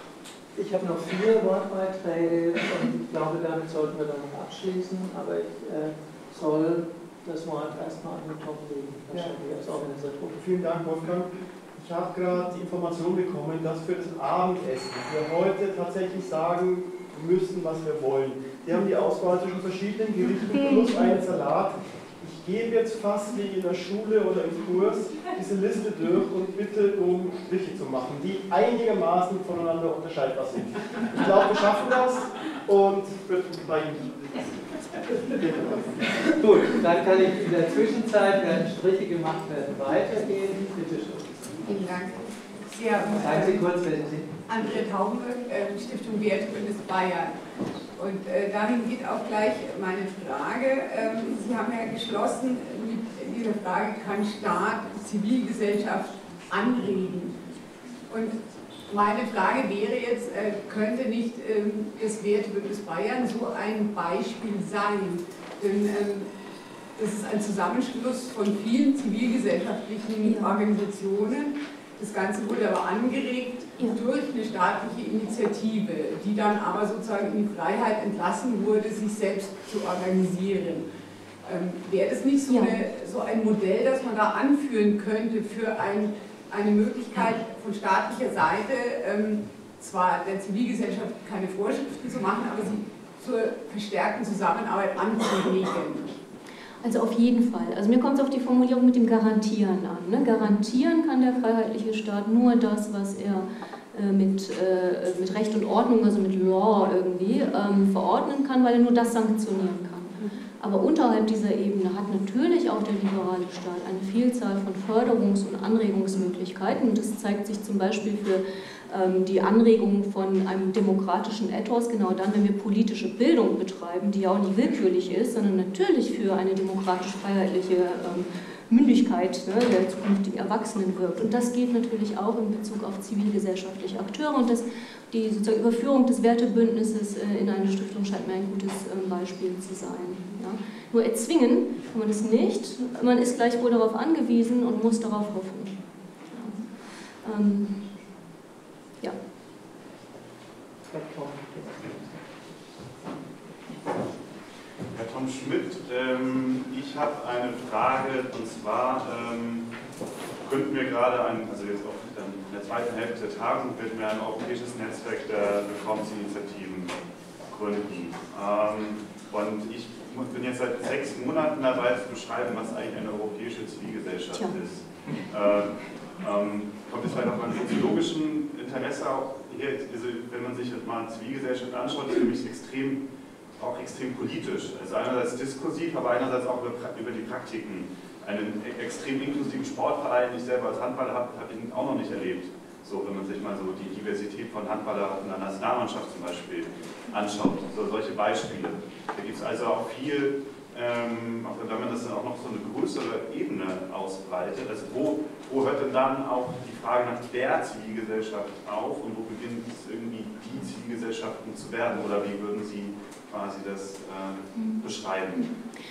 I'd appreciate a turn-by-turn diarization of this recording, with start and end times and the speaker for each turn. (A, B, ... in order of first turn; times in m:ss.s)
0:00.5-0:10.4 A
0:09.1-0:09.4 B
0:10.3-0:36.2 B
0:36.3-0:41.4 A
0:41.6-0:43.6 C
0:43.2-0:44.4 A
0:44.5-0:47.4 C
0:47.9-0:57.4 C
0:58.1-1:06.3 C
1:07.0-1:20.8 C
1:10.2-1:10.6 D
1:21.4-1:36.2 C
1:22.5-1:22.8 D
1:36.8-2:25.7 D
2:26.3-2:26.6 D
2:27.2-2:27.9 D
2:30.9-2:32.1 A
2:34.9-2:39.7 E
2:40.4-3:35.5 E